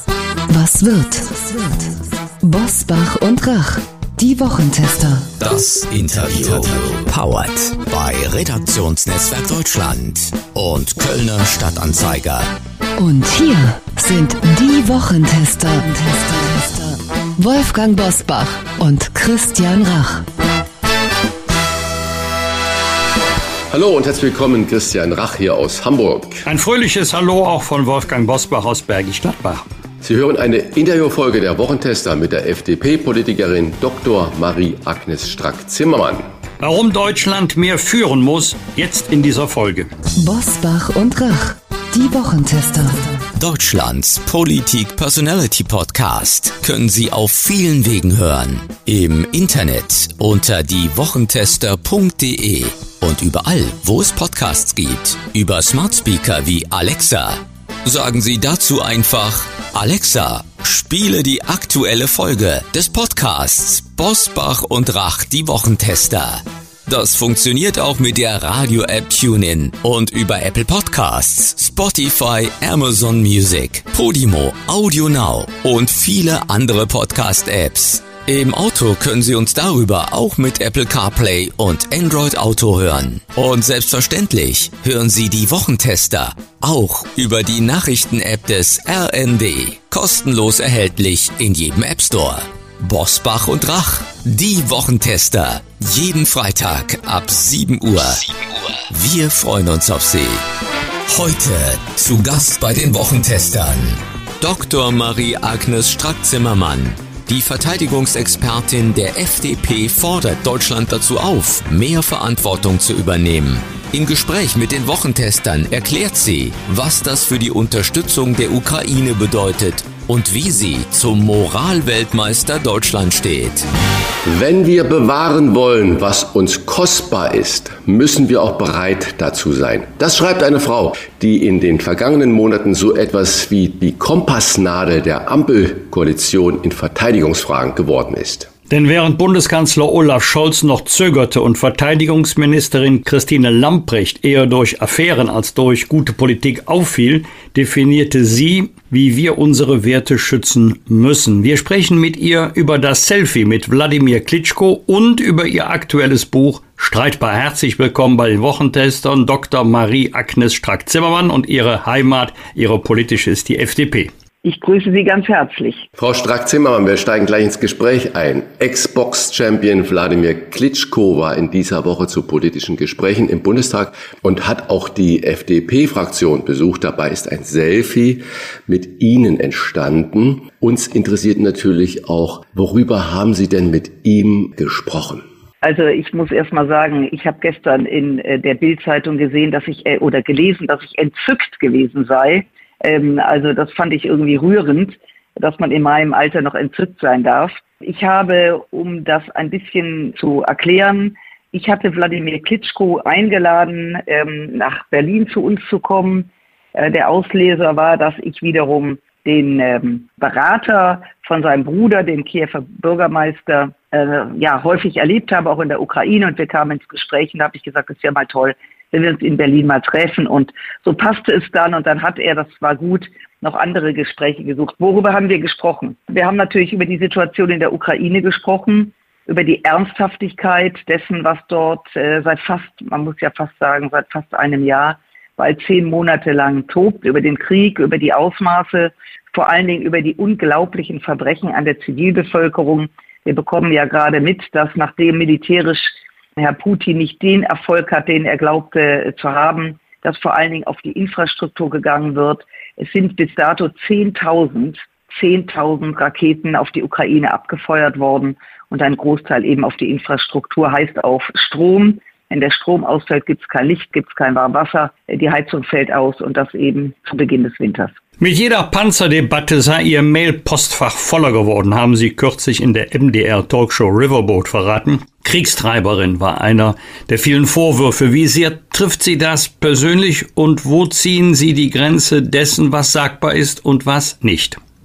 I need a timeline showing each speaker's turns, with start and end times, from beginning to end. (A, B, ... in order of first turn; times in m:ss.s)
0:00.5-0:05.3 A
0:05.4-0:12.5 B
0:13.0-0:20.2 A
0:23.7-0:26.4 C
0:26.4-0:29.6 D
0:30.0-0:36.3 C
0:36.6-0:39.9 D
0:40.2-0:43.2 A
0:43.4-1:38.3 B
1:38.8-1:40.4 B
1:41.1-2:03.7 B
2:04.2-2:18.5 C
2:18.7-2:44.1 D
2:44.4-2:45.9 E
2:46.0-3:05.2 C
3:05.6-4:27.9 E
4:28.2-4:44.6 D